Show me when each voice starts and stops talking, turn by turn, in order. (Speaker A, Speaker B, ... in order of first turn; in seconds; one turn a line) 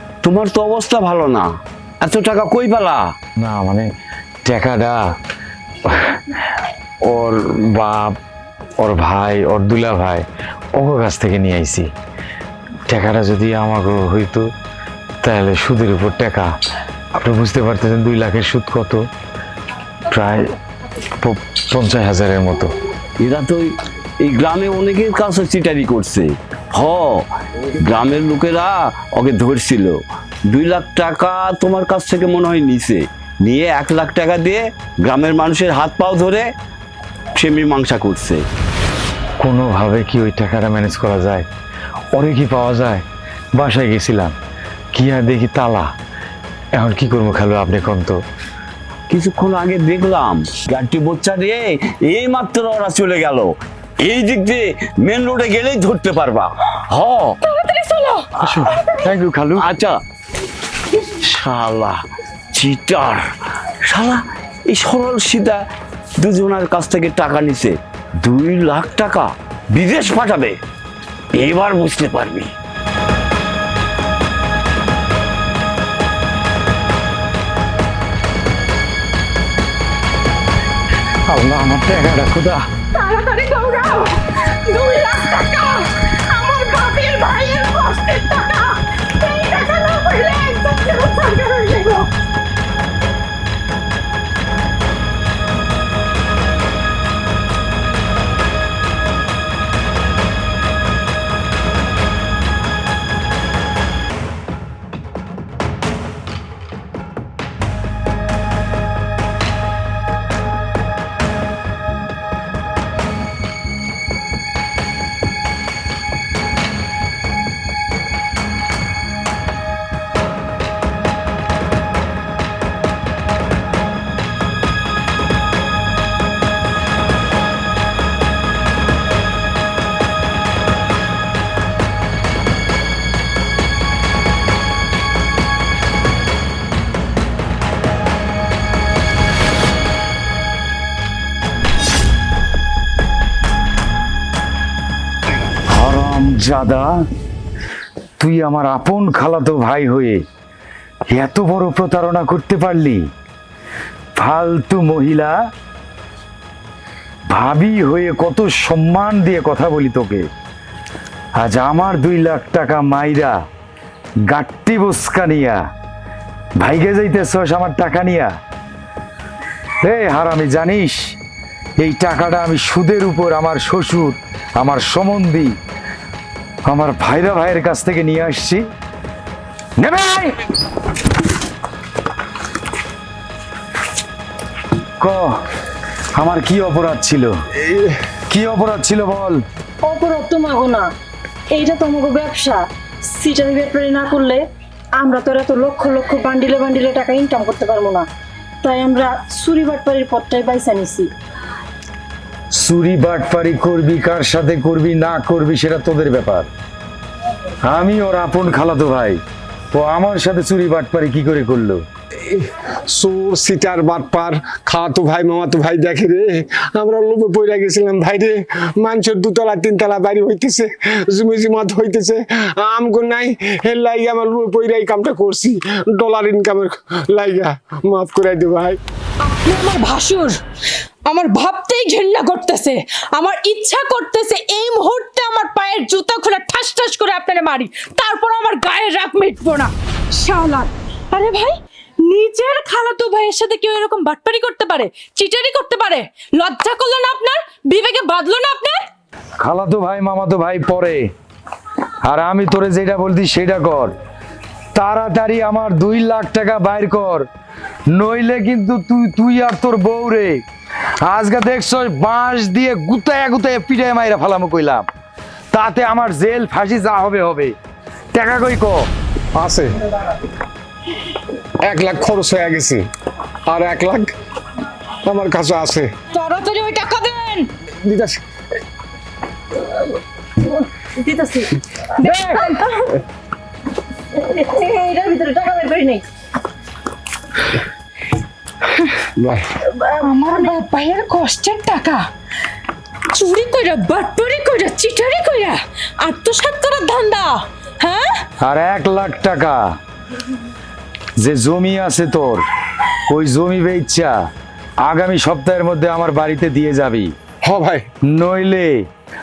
Speaker A: 0.2-1.5
Speaker A: 2.0-3.1
Speaker B: 3.4-3.9
Speaker B: 4.4-5.0
Speaker B: 5.8-8.2
Speaker B: 8.8-11.9
Speaker B: 12.9-14.5
Speaker B: 15.2-16.5
Speaker B: 17.1-19.0
Speaker B: 20.1-20.6
Speaker B: 21.1-22.7
Speaker A: 23.2-23.7
Speaker A: 24.2-36.5
Speaker A: 37.3-38.4
Speaker B: 39.4-41.5
Speaker B: 42.1-44.3
Speaker B: 44.9-45.9
Speaker B: 46.7-48.2
Speaker A: 49.1-57.4
Speaker C: 57.4-58.3
Speaker B: 58.4-59.7
Speaker A: 59.6-60.0
Speaker A: 61.2-62.0
Speaker A: 62.5-63.2
Speaker A: 63.9-65.6
Speaker A: 66.2-70.6
Speaker A: 71.3-72.5
Speaker B: 81.2-82.7
Speaker C: 82.9-92.1
Speaker B: 145.7-147.1
Speaker B: 148.2-150.2
Speaker B: 151.1-153.1
Speaker B: 154.2-155.4
Speaker B: 157.3-160.3
Speaker B: 161.4-163.4
Speaker B: 164.3-165.6
Speaker B: 166.6-168.3
Speaker B: 169.8-171.2
Speaker B: 171.8-175.6
Speaker B: 176.7-178.7
Speaker B: 179.8-180.4
Speaker B: 185.0-185.3
Speaker B: 186.2-187.3
Speaker D: 187.6-187.9
Speaker B: 188.3-189.4
Speaker E: 189.8-190.9
Speaker E: 191.5-194.4
Speaker E: 195.0-198.1
Speaker E: 198.6-201.1
Speaker B: 202.5-206.5
Speaker B: 207.6-211.8
Speaker D: 212.2-228.8
Speaker C: 229.2-230.4
Speaker C: 231.1-248.8
Speaker B: 249.4-251.1
Speaker B: 252.0-253.9
Speaker B: 254.7-257.3
Speaker B: 257.9-260.4
Speaker B: 261.0-264.9
Speaker B: 265.5-267.5
Speaker B: 268.1-268.9
Speaker D: 269.3-269.7
Speaker D: 271.6-272.9
Speaker D: 273.5-274.1
Speaker D: 275.0-275.9
Speaker C: 276.1-277.5
Speaker D: 277.7-278.2
Speaker E: 280.5-282.9
Speaker C: 282.0-282.7
Speaker E: 284.1-286.0
Speaker D: 289.2-289.5
Speaker E: 289.6-290.5
Speaker C: 290.0-292.1
Speaker C: 293.1-298.2
Speaker B: 298.4-299.6
Speaker B: 301.2-302.4
Speaker B: 303.1-304.2
Speaker B: 304.8-307.1
Speaker D: 307.4-307.8
Speaker B: 308.1-308.9